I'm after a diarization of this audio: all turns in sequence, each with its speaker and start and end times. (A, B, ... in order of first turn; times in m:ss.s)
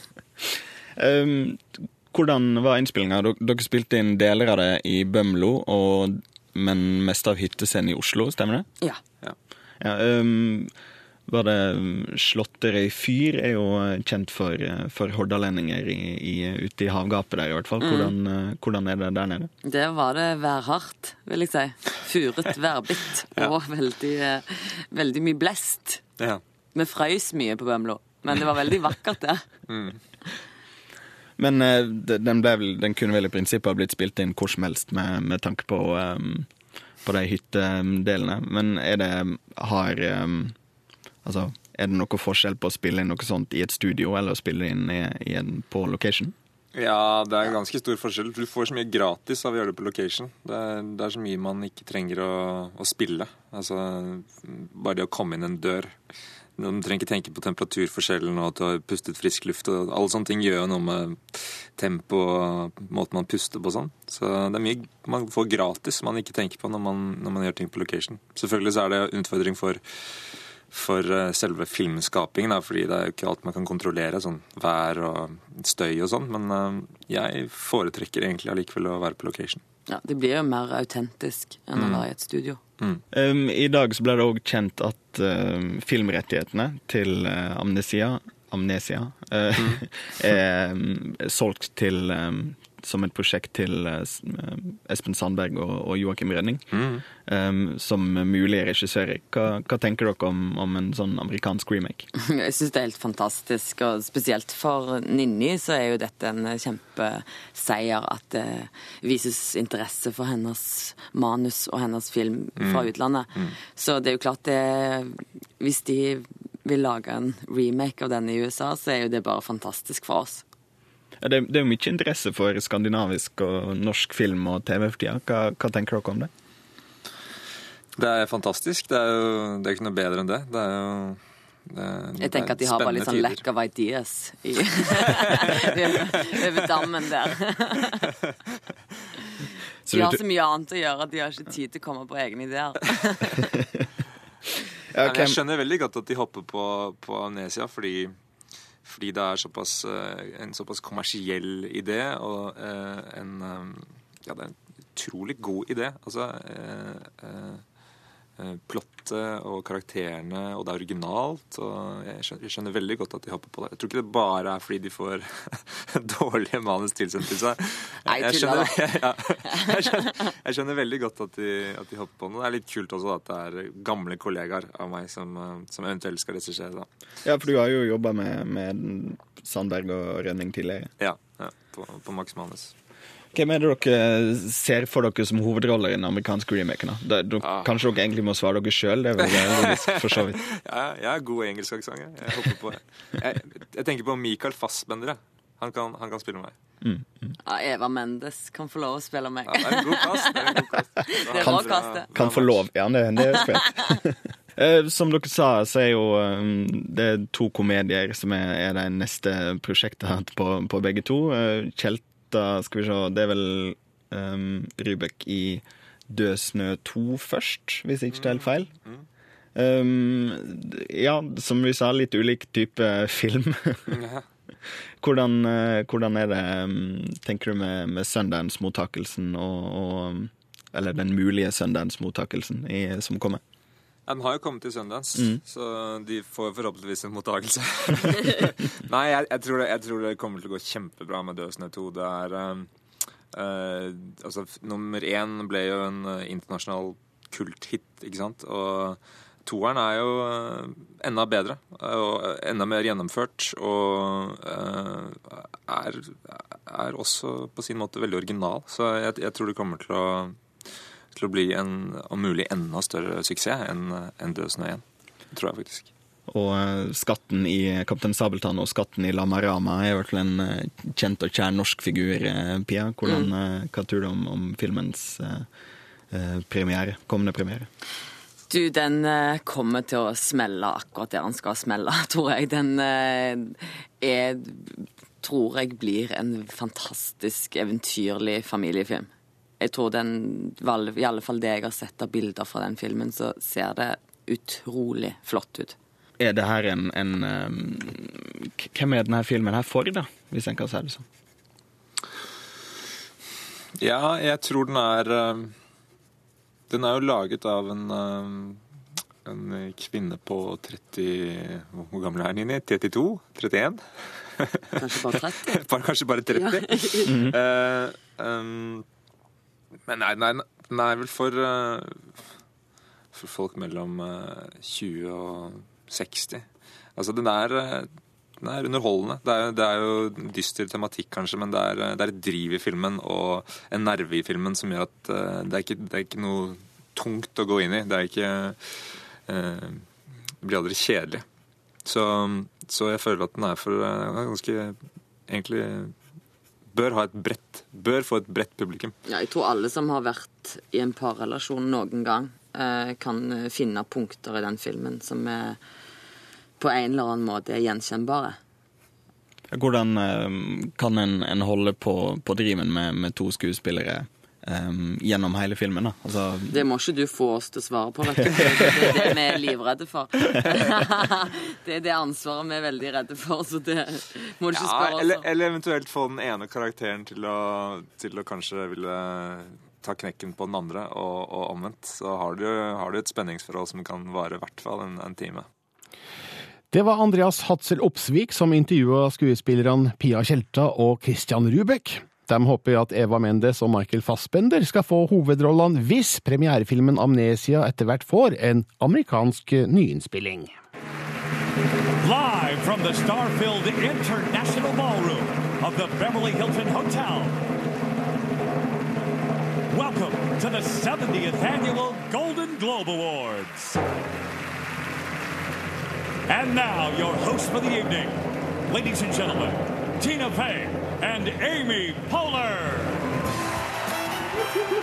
0:01.0-0:08.7 A
0:09.8-0:10.7 A
0:11.3-0:19.5 A
0:17.8-0:18.1 B
0:19.6-0:26.0 B
0:26.8-0:29.4 B
0:29.7-0:30.0 C
0:31.4-0:36.5 A
0:37.0-0:40.6 A
0:41.2-0:46.4 A
0:46.7-0:56.0 C
0:56.6-1:09.8 C
1:10.7-1:19.6 C
1:19.9-1:22.6 B
1:21.8-1:22.0 C
1:23.1-1:42.1 A
1:29.6-1:29.8 C
1:36.7-1:37.0 C
1:42.2-2:00.4 B
1:52.6-1:53.6 C
2:01.2-2:06.3 A
2:08.0-2:13.4 C
2:12.2-2:18.1 B
2:19.9-2:20.2 A
2:19.9-2:23.3 B
2:24.9-2:25.4 A
2:25.0-2:28.2 C
2:28.8-2:37.6 C
2:38.4-2:56.9 C
2:48.1-2:48.8 B
2:49.5-2:50.1 B
2:57.2-3:00.9 A
3:01.0-3:02.7 C
3:03.3-3:10.4 A
3:07.4-3:07.8 C
3:09.2-3:16.6 C
3:16.8-3:17.3 A
3:17.4-3:20.5 B
3:19.5-3:22.6 C
3:21.2-3:22.1 B
3:21.4-3:38.7 A
3:38.1-3:39.1 C
3:39.6-3:43.9 A
3:43.9-3:44.2 C
3:45.0-3:53.4 A
3:54.1-4:02.7 C
3:55.2-3:55.4 A
4:03.3-4:20.4 C
4:21.1-4:25.9 C
4:26.3-4:35.5 A
4:33.0-4:33.3 B
4:36.1-4:37.7 A
4:38.5-4:55.8 B
4:56.2-5:01.0 A
5:03.8-5:05.5 C
5:06.7-5:08.6 C
5:09.2-5:18.8 C
5:14.8-5:15.6 B
5:16.3-5:17.1 B
5:17.1-5:17.4 A
5:19.9-5:22.2 C
5:23.1-5:39.9 C
5:40.4-5:41.2 C
5:41.8-5:46.0 C
5:46.7-5:48.9 C
5:49.1-5:55.6 B
5:56.6-5:58.4 B
5:59.5-6:06.6 A
6:06.5-6:15.3 B
6:08.2-6:09.0 A
6:14.5-6:25.5 C
6:26.7-6:40.6 D
6:42.0-6:47.4 E
6:49.7-6:53.8 E
6:56.3-7:03.0 E